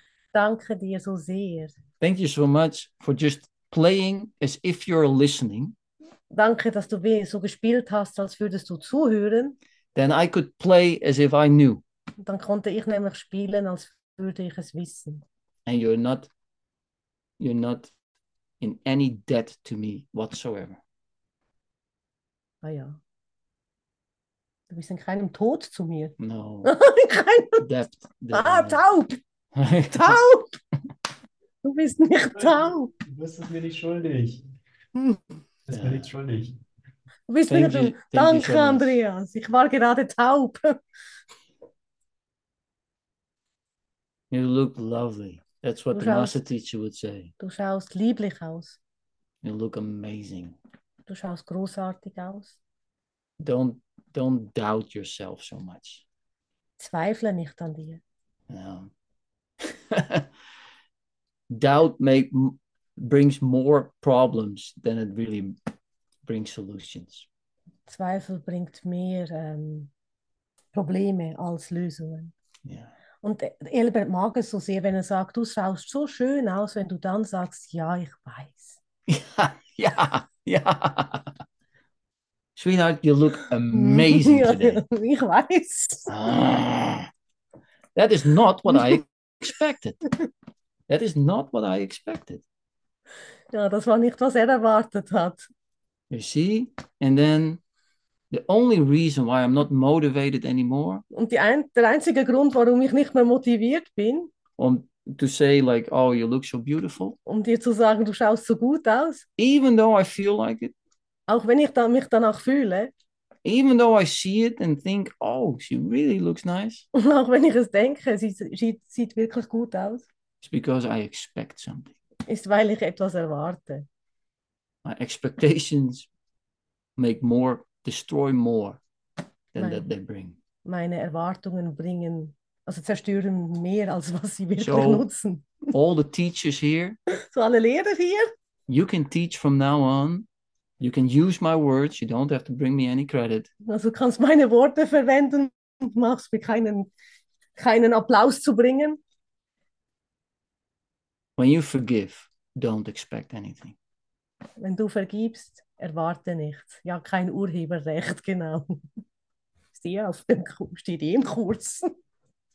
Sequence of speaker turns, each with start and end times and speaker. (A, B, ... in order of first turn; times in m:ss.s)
0:00.3-0:01.8 A
0:02.0-0:05.8 B
0:06.3-0:09.6 A
0:10.0-0:11.8 B
0:12.2-0:15.2 A
0:15.7-0:16.3 B
0:17.4-0:17.9 B
0:18.6-0:20.8 B
0:22.6-0:23.0 A
0:24.7-0:27.6 A
0:26.2-0:26.7 B
0:27.6-0:28.8 B
0:28.3-0:29.2 A
0:29.5-0:30.2 B
0:29.9-0:30.5 A
0:31.6-0:32.9 A
0:32.4-0:34.4 C
0:35.7-0:36.6 C
0:35.7-0:36.1 B
0:37.3-0:40.8 A
0:37.5-0:39.0 B
0:44.3-0:47.3 B
0:45.9-0:46.4 A
0:47.4-0:48.8 A
0:49.4-0:50.6 B
0:51.1-0:52.6 A
0:53.4-0:56.0 B
0:56.8-0:58.0 A
0:58.5-0:58.9 B
0:59.6-1:00.3 B
1:01.5-1:05.6 B
1:06.2-1:07.3 B
1:07.9-1:09.9 A
1:10.7-1:12.3 A
1:12.6-1:12.9 B
1:13.2-1:18.8 A
1:19.1-1:21.3 B
1:22.6-1:24.8 B
1:23.7-1:26.1 A
1:26.1-1:27.1 B
1:28.0-1:30.0 B
1:30.9-1:32.4 B
1:33.5-1:35.5 A
1:36.1-1:37.6 B
1:38.3-1:41.0 B
1:41.1-1:44.3 A
1:44.6-1:47.2 B
1:47.3-1:49.3 A
1:49.4-1:50.7 B
1:51.3-1:52.9 A
1:53.4-1:56.9 B
1:56.9-2:00.1 A
2:00.4-2:02.0 B
2:02.3-2:03.9 A
2:04.8-2:06.1 B
2:07.0-2:08.8 B
2:09.5-2:10.4 B
2:09.6-2:09.9 A
2:10.6-2:15.7 A
2:14.6-2:15.1 B
2:15.7-2:17.0 B
2:17.1-2:18.3 A
2:18.7-2:20.3 B
2:20.8-2:23.5 B
2:23.6-2:26.9 A
2:27.6-2:29.0 A
2:31.4-2:33.8 B
2:34.6-2:38.9 A
2:39.7-2:41.9 A